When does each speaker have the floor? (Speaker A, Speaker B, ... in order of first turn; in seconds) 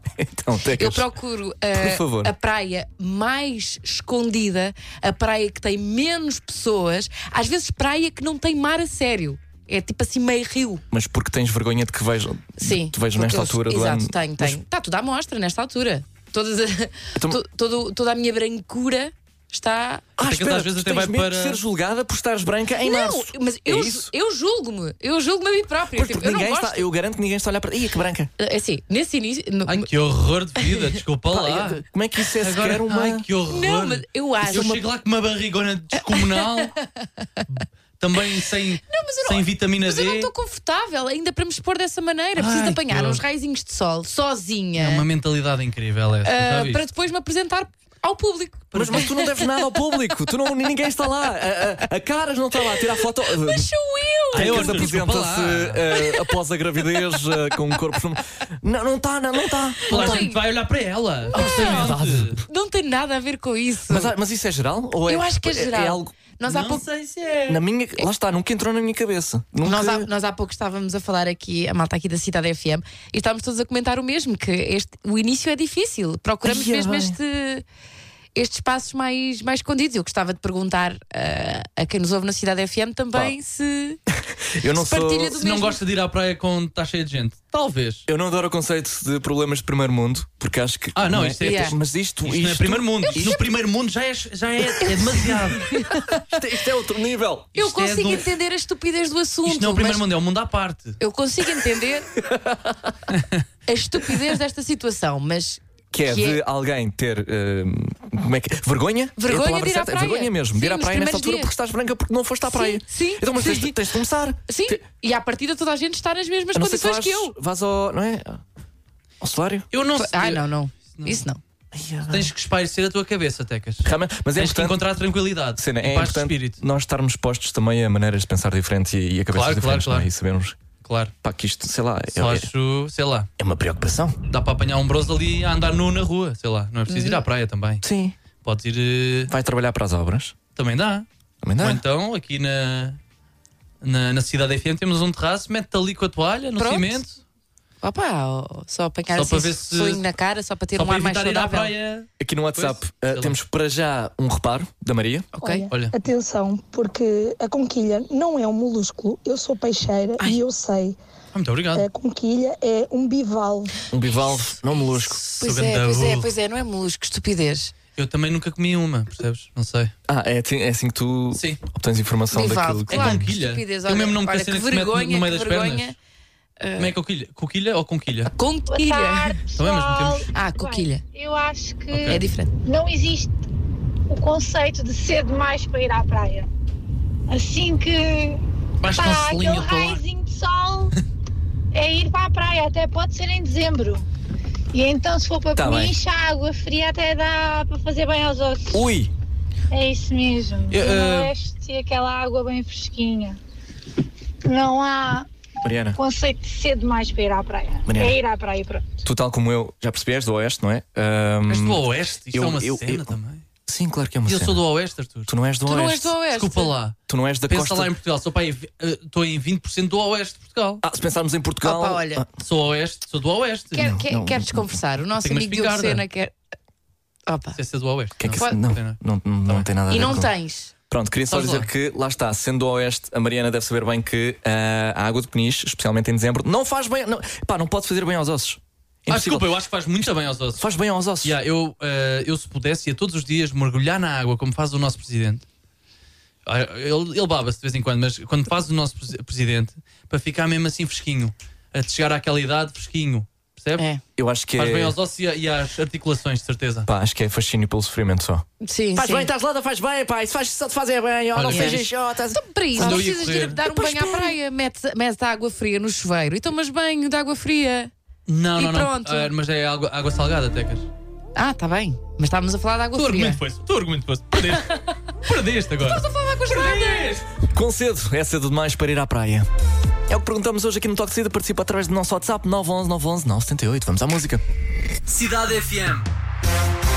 Speaker A: 0.2-1.1, 1.7-2.3, 10.9-14.6, 20.2-24.1, 25.9-28.3, 31.3-33.2, 48.7-53.7, 54.3-60.3, 61.4-62.3, 63.9-66.1, 67.5-70.1, 76.4-77.2, 84.5-85.4, 88.1-93.4, 96.2-97.5, 102.2-103.1, 105.9-114.8, 116.5-118.4, 119.2-119.7, 121.7-122.3, 123.8-124.8, 125.5-130.6, 131.2-132.5, 133.4-134.2, 137.8-138.2, 139.3-140.3, 141.4-141.8, 152.2-155.3, 163.9-165.2, 170.1-173.3, 195.5-195.9, 198.7-199.1, 205.6-206.0, 207.8-208.2, 209.0-213.1, 213.7-214.6, 215.3-216.1, 217.1-217.9, 220.8-222.3, 223.8-224.8, 228.2-230.3, 230.9-239.5, 240.6-241.4, 254.2-255.0, 256.9-264.3, 277.5-279.5, 280.1-284.4
Speaker B: 0.8-10.8, 12.6-20.1, 22.8-26.9, 28.4-29.9, 33.5-34.8, 36.0-37.4, 38.9-45.0, 46.2-49.5, 52.7-54.9, 55.9-56.3, 59.8-60.4, 61.3-64.1, 65.1-66.8, 69.6-77.6, 78.3-84.0, 84.7-85.8, 91.4-91.7, 93.0-93.4, 95.5-96.3, 97.5-100.0, 101.0-102.1, 103.7-106.4, 109.2-111.5, 112.4-113.8, 114.5-117.3, 120.0-121.4, 136.9-137.2, 146.6-147.0, 147.8-151.7, 155.3-155.7, 165.2-167.7, 172.3-175.9, 176.6-176.9, 178.3-179.4, 180.3-181.0, 182.1-182.5, 215.7-216.7, 221.6-222.2, 223.7-226.3, 227.3-227.6, 229.9-230.7, 258.6-259.3, 261.5-267.9, 268.6-269.3, 271.3-273.4, 275.8-277.2
Speaker C: 20.2-21.6, 29.7-31.8, 32.4-36.7, 38.0-40.3, 42.4-43.2, 44.8-46.8, 48.7-49.1, 54.3-55.8, 59.9-62.4, 66.5-67.6, 85.4-88.0, 90.9-95.7, 97.5-98.3, 99.4-101.0, 103.1-103.4, 119.7-121.2, 122.1-126.6, 129.3-130.1, 130.8-131.1, 132.1-133.3, 134.3-137.8, 138.4-139.3, 140.6-141.1, 141.6-143.0, 143.8-147.2, 149.1-150.1, 150.7-153.3, 161.3-161.9, 165.2-166.3, 168.0-169.9, 171.3-171.6, 172.9-175.9, 176.8-178.3, 179.6-180.3, 181.9-182.2, 188.8-190.0, 200.7-201.3, 211.5-213.4, 214.3-215.3, 216.3-220.8, 222.4-223.9, 225.2-226.0, 227.6-229.7, 231.3-231.7, 239.1-240.7, 241.2-245.4, 246.4-253.8, 254.6-256.9, 261.3-261.9, 262.8-263.6, 268.3-270.9, 272.9-277.3, 285.1-286.1
Speaker D: 155.4-161.0, 161.7-163.7
Speaker E: 178.7-183.3, 184.1-186.5, 187.3-190.9, 191.7-194.0, 194.7-198.8, 199.7-203.4, 204.4-205.3, 205.9-209.0